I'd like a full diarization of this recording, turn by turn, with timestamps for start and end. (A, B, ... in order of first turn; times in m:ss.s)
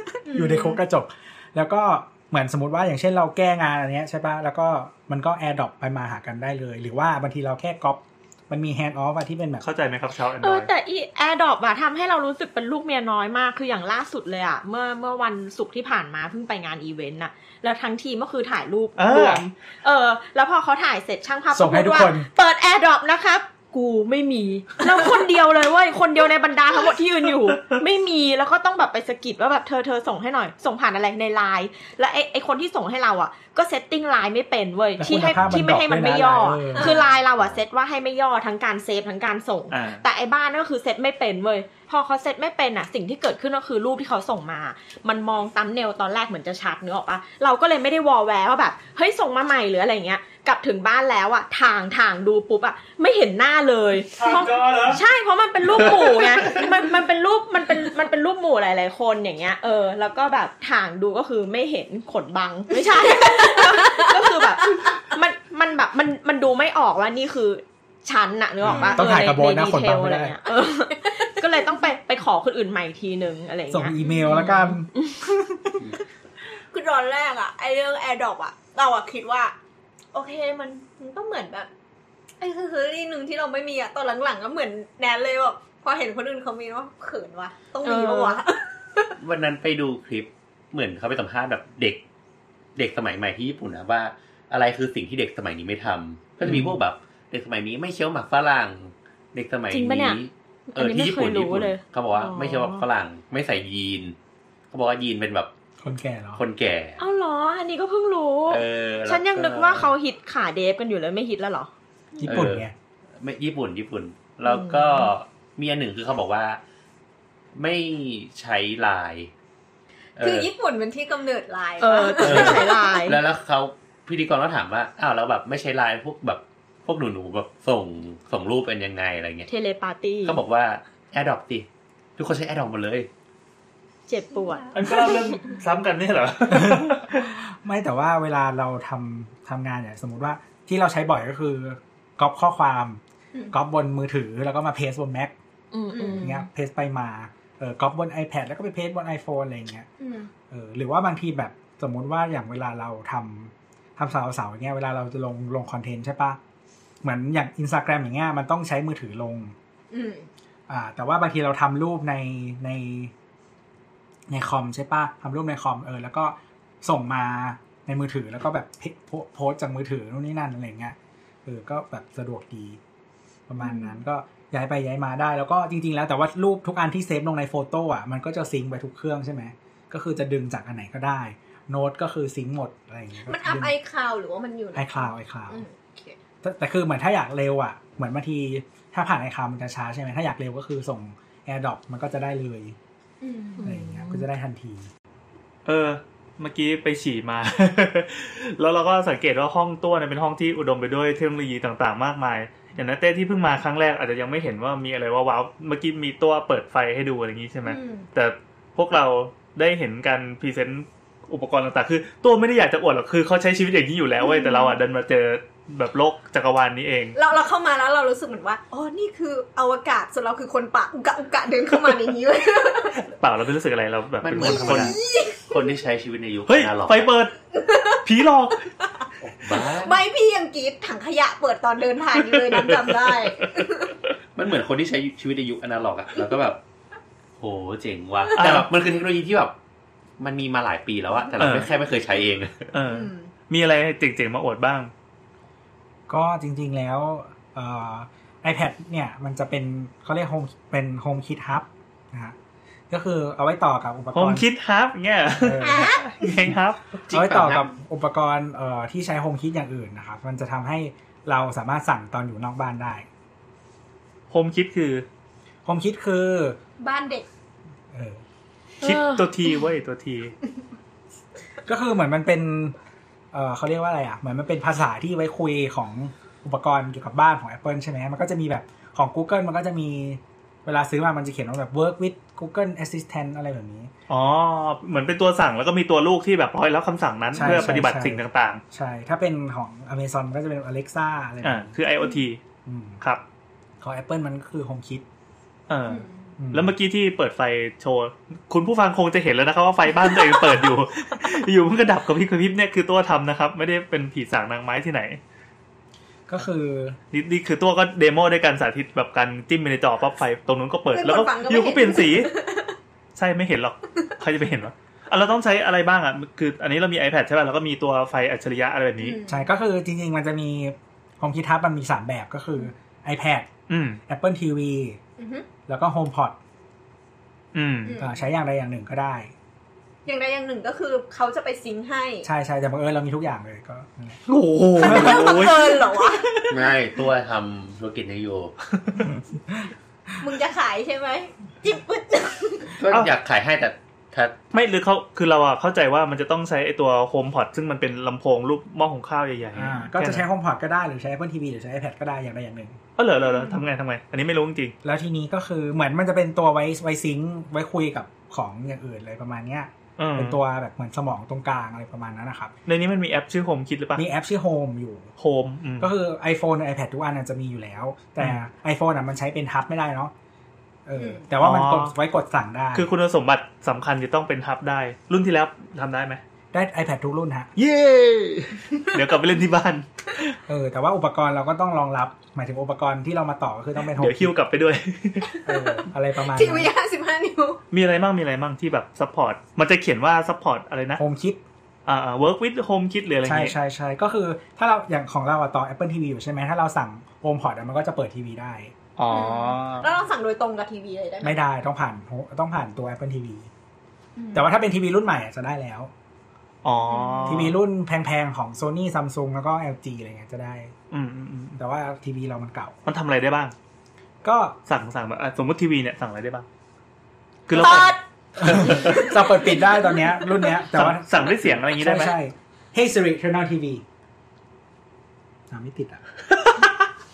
0:00.1-0:09.6 A
0:00.3-0:00.8 B
0:09.6-0:10.7 C
0:10.4-1:15.1 D
0:19.0-0:19.4 C
0:21.5-0:22.3 A
0:35.0-0:37.0 A
0:35.4-0:35.7 E
0:36.8-0:37.1 B
0:39.7-0:40.0 C
0:54.2-0:55.0 C
1:02.8-1:04.9 B
1:08.6-1:10.3 A
1:08.6-1:09.0 B
1:10.9-1:11.8 B
1:13.7-1:15.6 A
1:14.0-1:14.5 B
1:16.6-1:19.5 B
1:20.1-1:21.7 B
1:22.4-1:29.1 B
1:27.8-1:28.4 D
1:29.2-1:32.0 E
1:32.8-1:44.2 E
1:36.4-1:36.7 A
1:39.7-1:40.2 D
1:40.7-1:42.8 D
1:44.7-1:45.5 E
1:45.8-1:46.4 A
1:46.3-1:47.0 E
1:47.0-1:51.7 D
1:48.5-1:49.9 E
1:52.2-1:52.7 E
1:52.2-1:52.7 A
1:53.2-1:56.6 E
1:54.4-1:55.1 D
1:57.5-1:59.3 E
2:00.2-2:00.5 E
2:00.2-2:02.8 B
2:01.8-2:03.2 D
2:02.2-2:09.5 E
2:09.5-2:10.4 D
2:10.2-2:13.1 E
2:14.1-2:15.3 D
2:14.5-2:15.1 B
2:14.7-2:17.4 C
2:16.5-2:25.3 A
2:25.7-2:26.4 D
2:25.9-2:26.3 B
2:26.2-2:29.9 A
2:30.0-2:30.3 B
2:30.5-2:36.4 A
2:37.0-2:39.5 A
2:39.9-2:40.3 B
2:40.7-2:43.1 A
2:44.3-2:52.8 A
2:53.5-3:03.7 A
2:53.6-2:53.9 D
3:03.2-3:06.2 B
3:04.7-3:05.6 A
3:06.4-3:12.8 A
3:13.2-3:13.6 B
3:13.6-3:14.2 D
3:13.6-3:14.9 A
3:15.6-3:37.2 C
3:27.6-3:28.0 B
3:37.1-3:43.0 B
3:43.0-3:45.0 C
3:44.2-3:47.1 E
3:44.4-3:45.6 B
3:46.5-3:47.3 C
3:47.5-3:48.0 B
3:48.0-3:48.7 C
3:48.8-3:54.0 B
3:49.2-3:50.0 E
3:52.3-3:53.1 C
3:54.4-3:56.6 E
3:57.4-3:59.5 E
3:58.4-3:58.7 C
4:00.2-4:02.7 E
4:01.4-4:01.7 C
4:02.7-4:04.9 C
4:02.8-4:03.3 B
4:06.1-4:12.4 A
4:12.9-4:14.4 A
4:14.1-4:17.0 C
4:15.4-4:16.0 A
4:15.6-4:16.2 B
4:17.1-4:17.7 E
4:17.1-4:23.1 A
4:24.3-4:25.0 C
4:25.6-4:26.6 A
4:26.8-4:27.3 B
4:27.9-4:28.2 A
4:28.8-4:30.4 C
4:28.8-4:29.2 D
4:31.6-4:32.8 A
4:33.3-4:43.9 A
4:44.1-4:48.6 C
4:47.3-4:51.7 A
4:51.4-4:52.4 C
4:52.6-4:53.0 A
4:53.8-4:55.0 A
4:55.7-5:05.2 C
4:55.9-4:56.1 B
4:56.4-4:56.7 A
5:06.3-5:07.0 A
5:07.1-5:12.4 C
5:10.9-5:12.7 B
5:13.2-5:19.2 C
5:19.0-5:19.4 B
5:19.3-5:23.5 A
5:23.7-5:24.0 C
5:24.1-5:25.0 A
5:25.2-5:25.5 B
5:25.7-5:26.4 A
5:27.5-5:28.0 C
5:27.8-5:28.2 B
5:28.0-5:29.3 A
5:30.0-5:32.2 B
5:32.2-5:34.2 A
5:34.3-5:36.1 C
5:34.8-5:36.4 B
5:36.5-5:38.5 E
5:39.1-5:39.7 A
5:40.2-5:42.7 B
5:42.7-5:44.3 E
5:44.5-5:50.2 C
5:49.6-5:52.8 A
5:53.0-5:54.7 C
5:54.8-6:02.5 A
6:00.0-6:00.4 C
6:02.6-6:04.0 C
6:04.0-6:05.1 A
6:05.2-6:05.9 C
6:05.8-6:10.1 A
6:10.8-6:12.9 A
6:11.0-6:11.2 B
6:11.4-6:11.9 C
6:12.7-6:16.2 C
6:16.5-6:17.5 A
6:17.6-6:20.4 C
6:20.5-6:24.3 A
6:23.9-6:25.5 C
6:25.4-6:26.7 A
6:26.2-6:27.6 B
6:27.7-6:31.0 C
6:31.0-6:31.4 A
6:31.8-6:33.5 C
6:33.2-6:38.7 A
6:39.0-6:39.9 C
6:39.1-6:41.4 B
6:41.2-6:43.5 A
6:44.2-6:44.5 B
6:44.3-6:45.9 A
6:46.6-6:47.6 C
6:46.9-6:47.4 B
6:47.2-6:50.7 A
6:50.9-6:51.6 C
6:51.6-6:52.8 A
6:52.8-6:53.5 C
6:54.2-6:54.6 A
6:54.7-6:56.4 C
6:57.5-6:59.1 C
6:57.5-6:58.0 D
6:58.4-7:03.8 A
6:58.7-6:59.0 D
7:00.7-7:02.2 C
7:05.5-7:06.0 A
7:06.4-7:06.7 C